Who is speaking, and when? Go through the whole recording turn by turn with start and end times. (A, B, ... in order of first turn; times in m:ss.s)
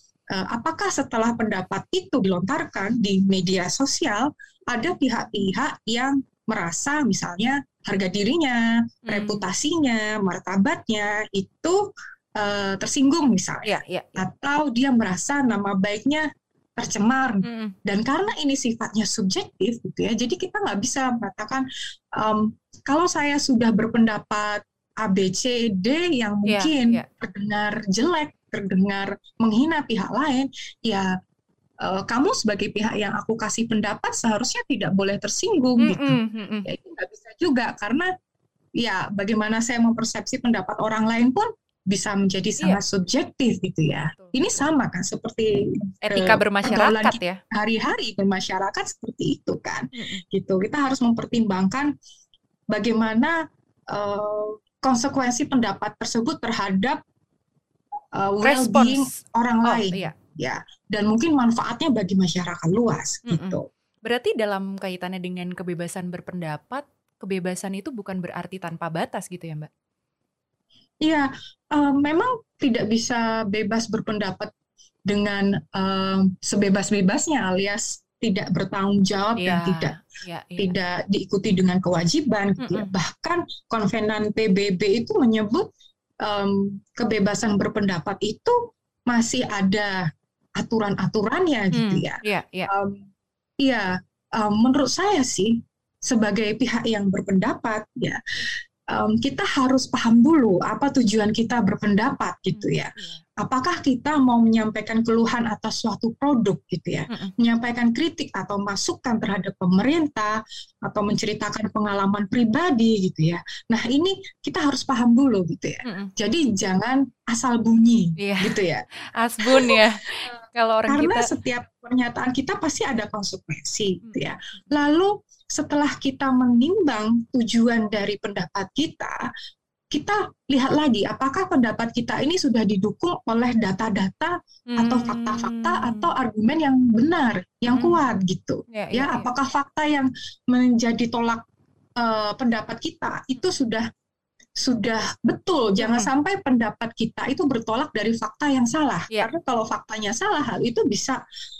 0:00.3-0:31.1 A
0:09.1-0:09.4 B
0:13.6-0:14.2 B
0:17.4-0:17.8 B
0:26.5-0:27.1 B
0:31.8-0:38.1 A
0:35.8-0:36.7 B
0:38.8-0:51.9 A
0:44.1-0:44.4 B
0:46.0-0:47.4 B
0:50.0-0:50.2 B
0:52.7-0:57.0 A
0:58.1-1:03.7 A
0:58.4-0:59.1 B
0:59.6-1:00.1 B
1:03.3-1:09.7 B
1:11.0-1:14.5 A
1:15.1-1:20.0 A
1:19.4-1:20.8 B
1:20.6-1:25.7 A
1:22.6-1:22.9 B
1:26.2-1:28.6 A
1:29.1-1:33.1 A
1:31.7-1:32.7 B
1:33.6-1:38.2 A
1:38.9-1:58.9 A
1:42.5-1:43.2 B
1:55.8-1:56.1 B
1:58.2-1:58.6 B
1:59.2-2:01.3 B
1:59.4-2:09.3 A
2:04.0-2:04.7 B
2:09.9-2:21.4 A
2:14.7-2:16.1 B
2:17.7-2:18.0 B
2:18.7-2:19.3 B
2:22.0-2:23.9 A
2:24.6-2:31.2 A
2:25.8-2:26.1 B